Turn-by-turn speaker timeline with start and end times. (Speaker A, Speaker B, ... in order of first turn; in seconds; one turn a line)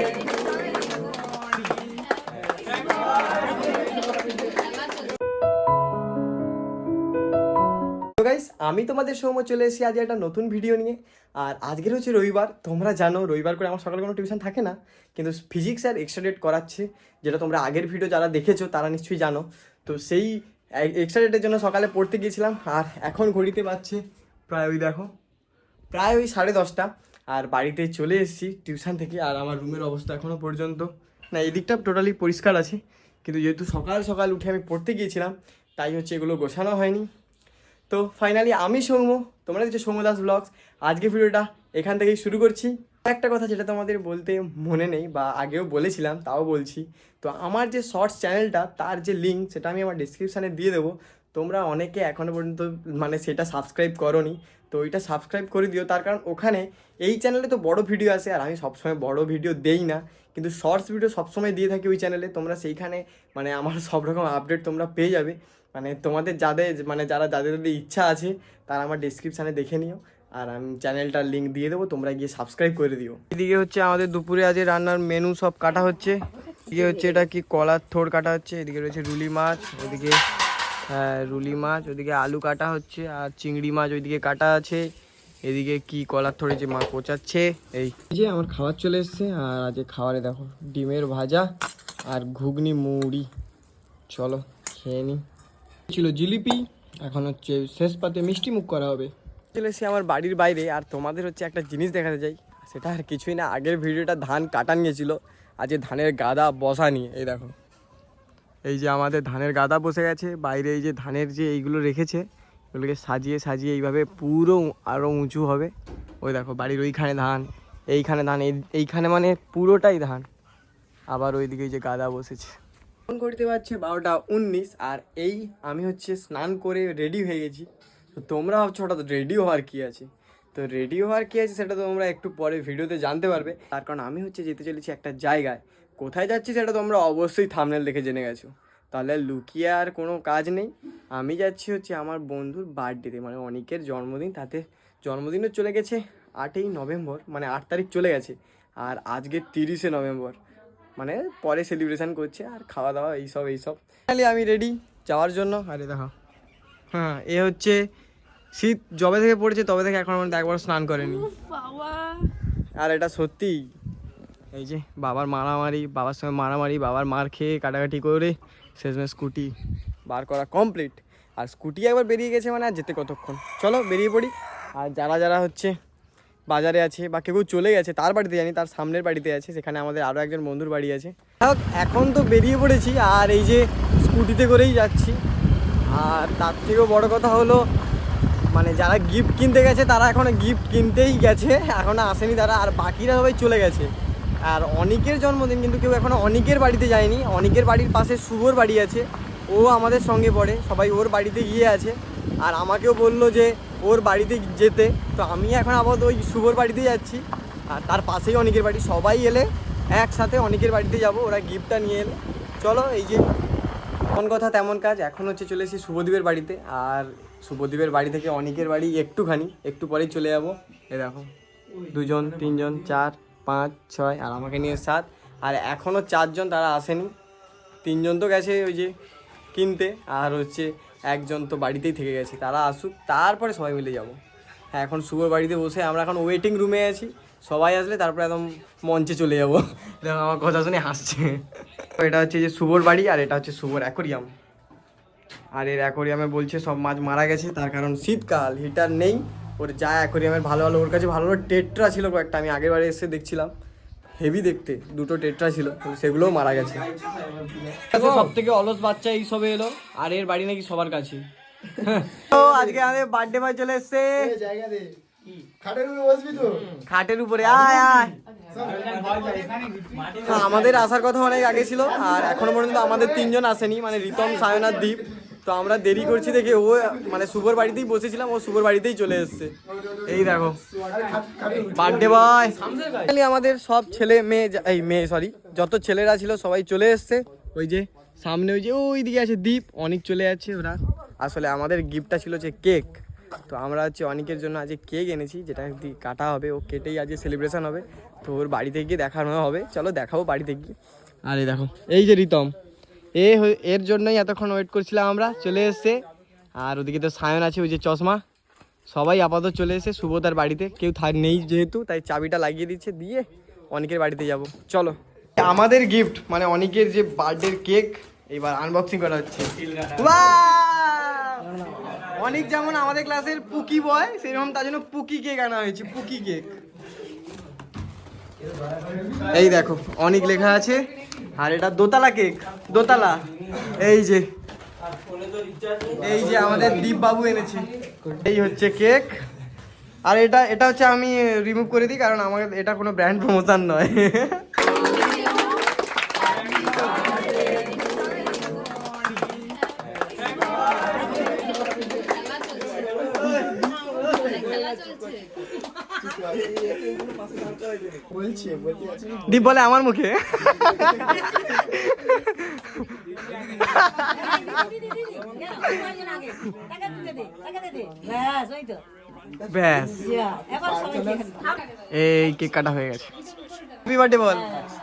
Speaker A: 8.2-25.1
Speaker A: 25.9-37.1
Speaker A: 37.9-80.2
Speaker A: 80.9-84.9
Speaker A: 85.5-91.5
Speaker A: 92.1-93.3
Speaker A: 94.1-95.2
Speaker A: 95.9-107.5
Speaker A: 108.7-120.3
Speaker A: 121.1-122.5
Speaker A: 123.1-150.4
Speaker A: 151.0-156.1
Speaker A: 156.9-157.8
Speaker A: 158.5-161.3
Speaker A: 162.8-163.7
Speaker A: 164.5-169.5
Speaker A: 170.1-175.7
Speaker A: 176.5-185.2
Speaker A: 185.9-187.7
Speaker A: 188.5-193.9
Speaker A: 194.4-213.3
Speaker A: 214.1-221.3
Speaker A: 221.9-227.1
Speaker A: 227.8-228.9
Speaker A: 229.5-234.2
Speaker A: 234.7-244.3
Speaker A: 245.5-253.5
Speaker A: 254.2-256.9
Speaker B: 257.3-257.6
Speaker A: 257.9-261.2
Speaker A: 261.8-264.5
Speaker B: 264.5-264.9
Speaker B: 265.7-266.5
Speaker A: 266.7-268.2
Speaker B: 268.6-269.6
Speaker A: 270.2-280.6
Speaker B: 280.9-281.6
Speaker A: 281.6-300.8
Speaker A: 301.3-302.6
Speaker A: 303.2-306.0
Speaker A: 306.6-308.2
Speaker A: 308.9-326.5
Speaker A: 329.2-334.2
Speaker A: 336.0-339.2
Speaker A: 340.1-344.5
Speaker B: 353.5-355.2
Speaker B: 356.1-357.4
Speaker A: 356.2-356.7
Speaker B: 358.0-358.9
Speaker A: 358.1-364.7
Speaker B: 364.0-368.9
Speaker A: 365.6-365.9
Speaker A: 366.4-366.7
Speaker A: 369.4-370.2
Speaker B: 370.0-371.6
Speaker A: 371.9-373.1
Speaker A: 373.8-374.7